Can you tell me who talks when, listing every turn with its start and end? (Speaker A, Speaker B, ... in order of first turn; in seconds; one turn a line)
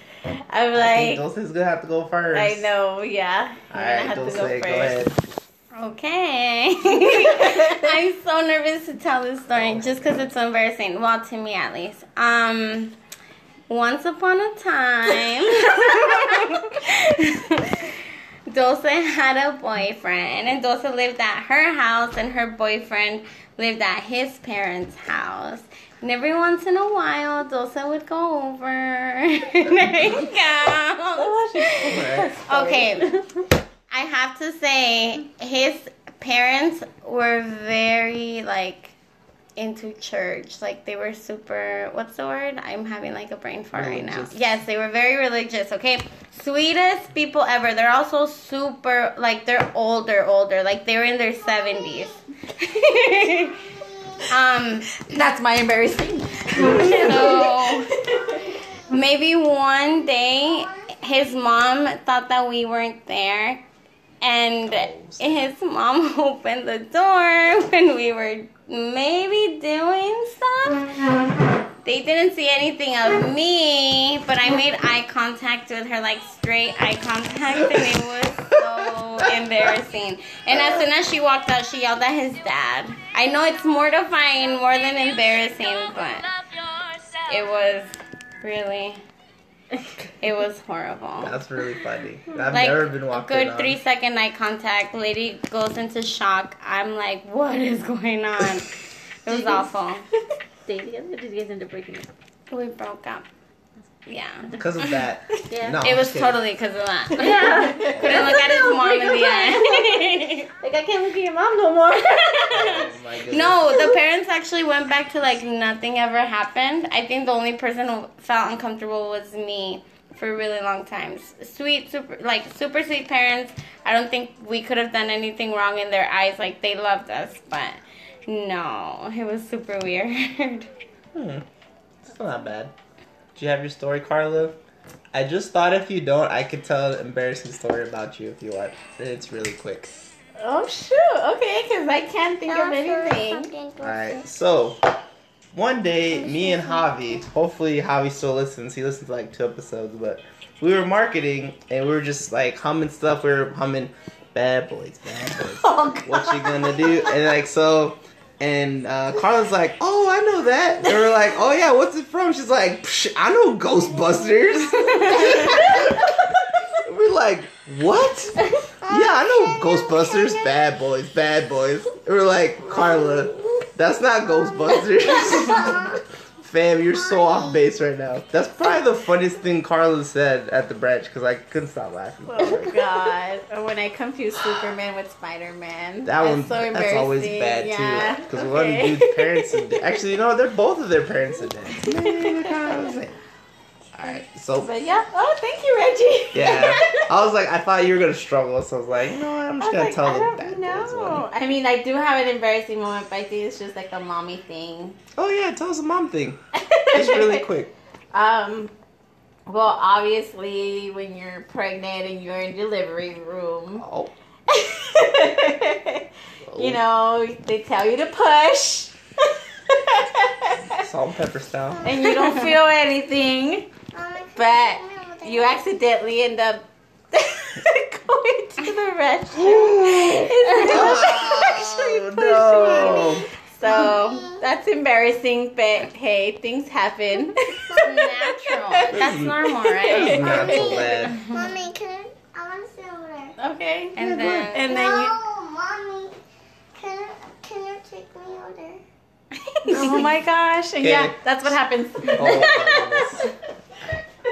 Speaker A: 0.2-1.2
Speaker B: 0.7-2.7
Speaker A: 2.3-4.9
Speaker B: 3.7-5.2
Speaker C: 5.8-12.9
Speaker A: 7.2-7.9
Speaker B: 9.6-10.2
Speaker C: 13.7-17.9
Speaker C: 18.5-33.2
Speaker A: 31.2-32.8
Speaker B: 31.8-32.3
Speaker C: 33.9-39.0
Speaker C: 39.6-53.6
Speaker B: 43.7-44.4
Speaker C: 54.3-55.0
Speaker A: 54.9-58.4
Speaker C: 56.6-57.9
Speaker C: 58.9-63.6
Speaker C: 64.2-71.1
Speaker B: 64.7-65.5
Speaker C: 71.8-86.3
Speaker B: 77.6-77.9
Speaker B: 78.6-79.3
Speaker B: 80.5-80.8
Speaker C: 87.2-87.9
Speaker C: 88.4-89.0
Speaker C: 90.2-91.4
Speaker B: 91.2-93.8
Speaker C: 92.5-100.1
Speaker D: 100.7-102.1
Speaker C: 102.5-103.3
Speaker C: 104.1-105.0
Speaker B: 104.5-106.4
Speaker D: 105.5-105.8
Speaker C: 105.8-110.5
Speaker D: 107.2-112.8
Speaker B: 107.8-108.8
Speaker B: 112.5-113.9
Speaker C: 113.3-130.7
Speaker B: 131.1-131.4
Speaker B: 132.0-132.7
Speaker B: 133.3-134.6
Speaker B: 135.1-140.2
Speaker A: 140.4-143.5
Speaker C: 142.7-143.7
Speaker B: 143.8-144.8
Speaker B: 145.5-166.1
Speaker A: 155.6-157.0
Speaker B: 166.8-183.1
Speaker A: 182.3-189.8
Speaker B: 186.0-193.2
Speaker A: 191.8-192.7
Speaker B: 193.9-194.8
Speaker A: 194.6-197.1
Speaker B: 196.3-201.3
Speaker A: 199.6-205.0
Speaker B: 205.2-207.8
Speaker A: 206.6-207.5
Speaker A: 208.1-208.7
Speaker A: 209.5-213.8
Speaker B: 213.8-214.1
Speaker A: 214.5-220.9
Speaker B: 216.5-216.8
Speaker B: 220.8-222.0
Speaker A: 221.8-223.7
Speaker C: 222.1-222.5
Speaker E: 224.0-224.3
Speaker A: 224.3-239.0
Speaker B: 229.4-233.3
Speaker C: 237.8-241.6
Speaker B: 238.9-241.2
Speaker A: 239.7-241.7
Speaker E: 241.6-243.3
Speaker A: 243.4-245.3
Speaker C: 243.9-244.8
Speaker B: 244.0-244.6
Speaker E: 244.7-246.1
Speaker E: 246.8-247.3
Speaker E: 247.8-248.6
Speaker C: 249.7-250.0
Speaker A: 249.7-253.1
Speaker B: 250.8-253.3